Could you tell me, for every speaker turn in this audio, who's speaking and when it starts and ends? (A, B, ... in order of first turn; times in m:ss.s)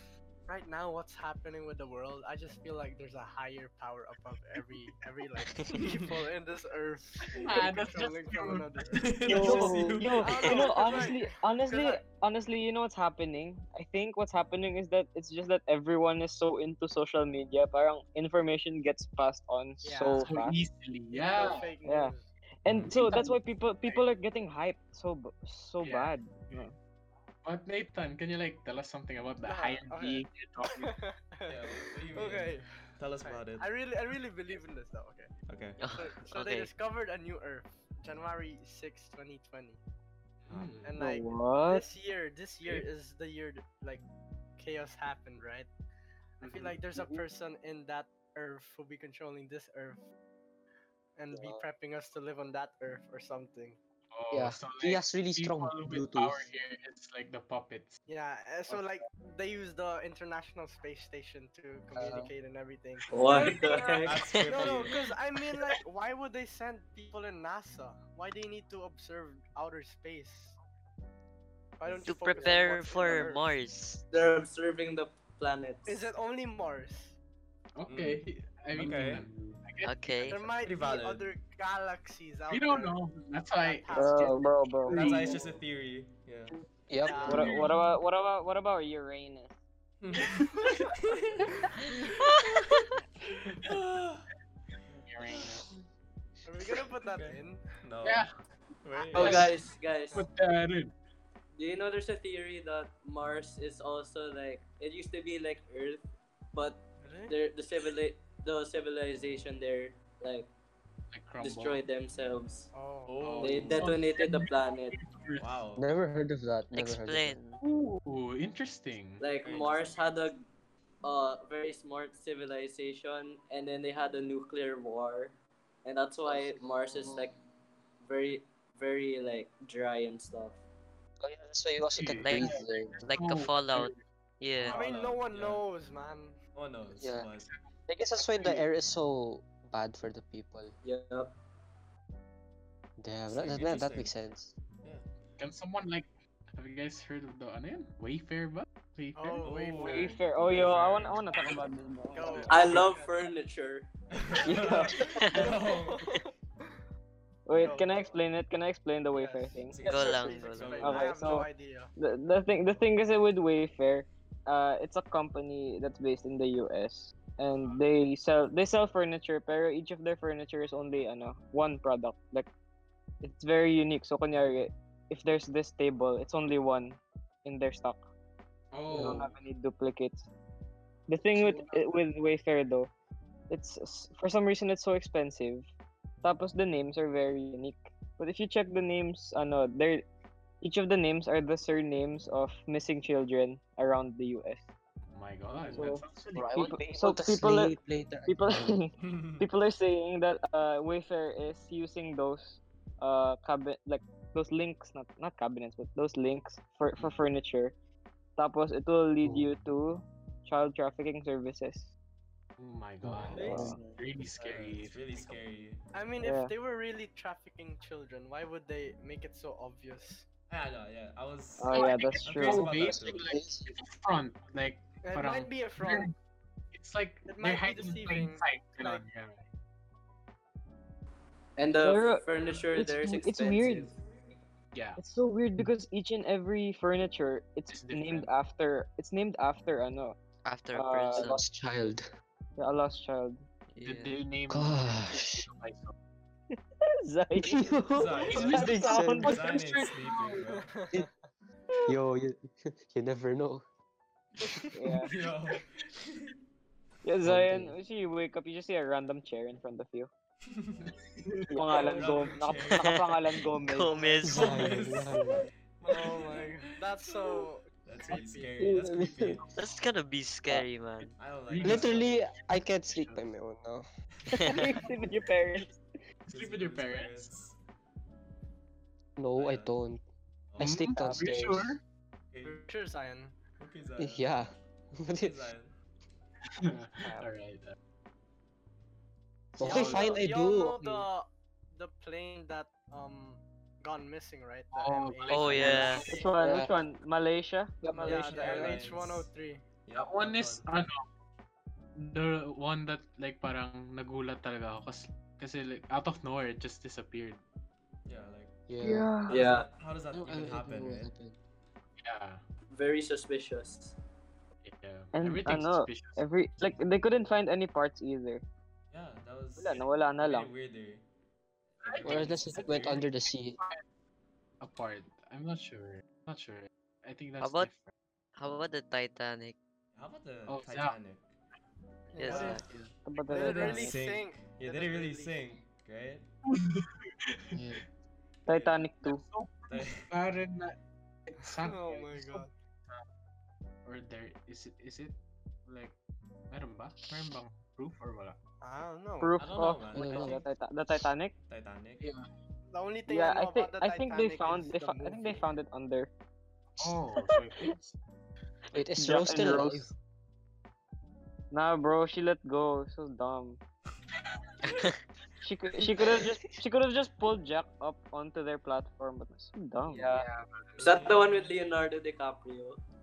0:00.5-0:09.6 A
0:07.2-0:09.7 B
0:08.9-0:11.1 C
0:09.3-0:20.6 D
0:10.2-0:12.0 A
0:19.8-0:20.3 A
0:20.2-0:21.6 B
0:21.1-0:22.3 A
0:21.8-0:22.1 D
0:22.6-0:26.7 D
0:22.7-0:24.0 B
0:25.8-0:26.1 B
0:27.4-0:30.9 B
0:29.4-0:32.7 A
0:31.5-0:33.7 C
0:33.2-0:35.3 A
0:35.5-0:35.9 C
0:35.8-0:36.7 E
0:35.9-0:39.8 A
0:40.4-0:41.0 B
0:40.5-0:40.8 C
0:40.8-0:44.0 A
0:41.0-0:41.8 D
0:44.6-0:45.7 A
0:46.4-0:50.0 A
0:46.4-0:46.8 B
0:46.9-0:47.2 F
0:51.2-0:53.8 A
0:51.3-0:51.6 F
0:54.1-0:58.0 B
0:54.3-0:56.5 F
0:58.1-1:10.6 A
1:02.0-1:02.3 F
1:03.1-1:04.2 G
1:04.0-1:05.1 C
1:04.1-1:04.8 E
1:11.8-1:13.5 A
1:12.0-1:14.0 E
1:14.1-1:16.1 G
1:15.8-1:17.2 A
1:17.8-1:20.6 B
1:17.9-1:19.3 C
1:19.8-1:20.4 E
1:20.3-1:23.0 A
1:20.6-1:21.3 C
1:22.5-1:25.2 B
1:23.6-1:24.5 A
1:23.9-1:25.0 D
1:24.9-1:26.6 C
1:24.9-1:25.3 F
1:26.9-1:27.5 F
1:27.0-1:27.7 A
1:27.1-1:27.7 C
1:27.3-1:29.5 D
1:30.0-1:32.4 C
1:30.2-1:30.9 B
1:33.5-1:34.3 C
1:34.9-1:35.7 C
1:35.0-1:35.6 B
1:36.4-1:37.6 A
1:37.0-1:38.3 C
1:38.0-1:38.3 B
1:38.8-1:39.6 C
1:39.1-1:39.6 B
1:39.1-1:40.2 G
1:40.1-1:40.9 B
1:41.5-1:50.5 G
1:47.0-1:47.3 A
1:51.1-1:51.8 B
1:51.4-1:52.7 G
1:52.7-1:53.2 A
1:53.0-1:53.9 C
1:53.2-1:55.5 B
1:53.4-1:55.0 G
1:55.4-1:55.9 C
1:55.8-1:57.4 F
1:56.7-1:57.6 E
1:57.6-1:59.3 B
1:59.2-2:00.4 G
1:59.4-2:00.0 C
2:01.0-2:07.4 G
2:06.2-2:07.3 F
2:08.0-2:10.6 G
2:11.2-2:13.0 F
2:11.9-2:14.0 B
2:12.2-2:14.7 E
2:14.7-2:15.6 C
2:14.7-2:16.4 A
2:16.5-2:17.5 C
2:17.0-2:17.3 F
2:17.9-2:20.7 F
2:18.4-2:18.6 B
2:20.8-2:21.3 G
2:23.0-2:24.5 F
2:23.3-2:24.1 C
2:25.4-2:29.4 B
2:29.1-2:30.1 A
2:29.4-2:31.6 C
2:29.8-2:32.6 D
2:32.1-2:33.1 A
2:32.3-2:32.8 B
2:32.5-2:33.9 G
2:34.1-2:36.2 C
2:34.4-2:35.0 D
2:34.5-2:36.3 A
2:37.5-2:39.8 D
2:37.5-2:37.9 A
2:39.1-2:41.9 A
2:39.6-2:41.3 C
2:39.8-2:40.8 E
2:40.8-2:52.5 D
2:53.2-2:58.0 D
2:58.7-2:59.3 B
2:58.9-2:59.3 F
2:58.9-3:00.3 D
3:01.1-3:02.9 D
3:01.3-3:01.8 B
3:03.5-3:05.6 D
3:06.2-3:10.0 D
3:10.6-3:14.7 D
3:15.1-3:16.7 B
3:15.5-3:16.0 C
3:15.8-3:17.8 D
3:16.3-3:18.8 F
3:18.3-3:27.7 D
3:19.0-3:19.4 C
3:28.4-3:31.9 D
3:29.2-3:29.6 F
3:32.6-3:35.4 B
3:33.0-3:34.0 F
3:33.4-3:33.8 D
3:34.3-3:35.8 C
3:35.9-3:40.3 A
3:36.2-3:36.5 D
3:40.5-3:43.3 C
3:41.6-3:42.7 D
3:41.7-3:46.1 B
3:43.2-3:43.8 F
3:45.0-3:46.1 A
3:46.7-3:49.4 B
3:47.2-3:49.4 A
3:51.6-3:54.0 G
3:51.8-3:53.9 D
3:54.7-3:55.0 B
3:55.0-4:00.2 D
3:57.7-3:58.3 B
4:00.4-4:01.4 E
4:00.7-4:01.4 D
4:01.2-4:02.0 F
4:02.6-4:03.4 D
4:03.7-4:04.1 E
4:03.8-4:05.9 B
4:04.5-4:05.4 F
4:06.5-4:09.4 D
4:07.4-4:09.4 F
4:07.9-4:10.7 C
4:08.2-4:10.4 B
4:10.5-4:11.1 A
4:11.9-4:13.6 F
4:14.7-4:15.1 D
4:15.0-4:16.3 C
4:17.0-4:20.1 D
4:17.2-4:17.8 F
4:20.5-4:20.9 C
4:21.5-4:24.2 D
4:21.7-4:23.0 C
4:22.8-4:23.0 E
4:23.6-4:24.6 E
4:24.2-4:25.5 F
4:24.2-4:29.5 C
4:25.8-4:28.6 A
4:28.6-4:29.4 F
4:29.5-4:31.1 E
4:31.1-4:32.1 C
4:31.5-4:32.1 B
4:31.6-4:33.8 F
4:32.9-4:33.2 B
4:34.4-4:34.7 E
4:34.5-4:35.8 D
4:36.2-4:37.6 C
4:36.3-4:37.3 B
4:39.2-4:40.0 F
4:39.4-4:39.7 C
4:40.5-4:41.0 C
4:40.6-4:41.7 F
4:40.6-4:41.8 B
4:42.3-4:42.6 C
4:42.4-4:43.4 A
4:43.6-4:44.4 C
4:44.0-4:45.4 F
4:45.2-4:45.7 C
4:46.6-4:47.7 B
4:49.5-4:51.1 F
4:49.6-4:50.2 B
4:49.6-4:56.0 A
4:54.7-4:56.2 B
4:55.2-4:56.1 E
4:56.0-4:58.2 D
4:56.4-4:56.7 F
4:57.8-4:58.7 F
4:58.0-4:59.3 C
4:58.0-4:59.6 A
4:59.8-5:00.7 C
5:00.0-5:01.0 B
5:02.0-5:07.4 B
5:08.0-5:08.6 C
5:08.7-5:09.2 F
5:08.8-5:09.3 D
5:09.3-5:11.1 C
5:09.3-5:09.7 G
5:10.1-5:11.4 F
5:12.0-5:12.4 B
5:12.7-5:14.0 G
5:14.6-5:16.2 B
5:15.1-5:18.4 D
5:18.9-5:21.0 C
5:19.6-5:20.5 D
5:21.8-5:23.1 C
5:21.8-5:23.0 B
5:22.0-5:23.6 F
5:24.6-5:27.9 B
5:27.4-5:27.7 E
5:28.4-5:29.6 E
5:29.9-5:31.3 C
5:30.5-5:31.0 B
5:32.1-5:32.6 A
5:32.1-5:32.6 E
5:32.2-5:32.9 B
5:33.0-5:34.0 D
5:33.3-5:35.4 A
5:33.4-5:36.3 C
5:36.5-5:37.8 B
5:37.5-5:37.8 F
5:38.5-5:39.2 D
5:38.5-5:38.9 C
5:39.0-5:40.8 B
5:39.7-5:40.1 C
5:41.3-5:43.0 B
5:41.5-5:42.5 A
5:43.8-5:46.0 B
5:46.5-5:48.4 B
5:48.6-5:49.4 A
5:49.2-5:51.3 D
5:49.4-5:50.4 C
5:49.9-5:50.4 F
5:51.5-5:52.1 C
5:52.0-5:52.3 B
5:52.7-5:55.5 A
5:53.1-5:56.1 D
5:56.8-5:57.9 B
5:58.7-5:59.9 F
5:59.0-5:59.9 D
6:01.5-6:03.6 D
6:05.4-6:10.2 D
6:05.9-6:06.2 F
6:09.9-6:10.4 F
6:10.8-6:11.5 C
6:10.8-6:12.8 G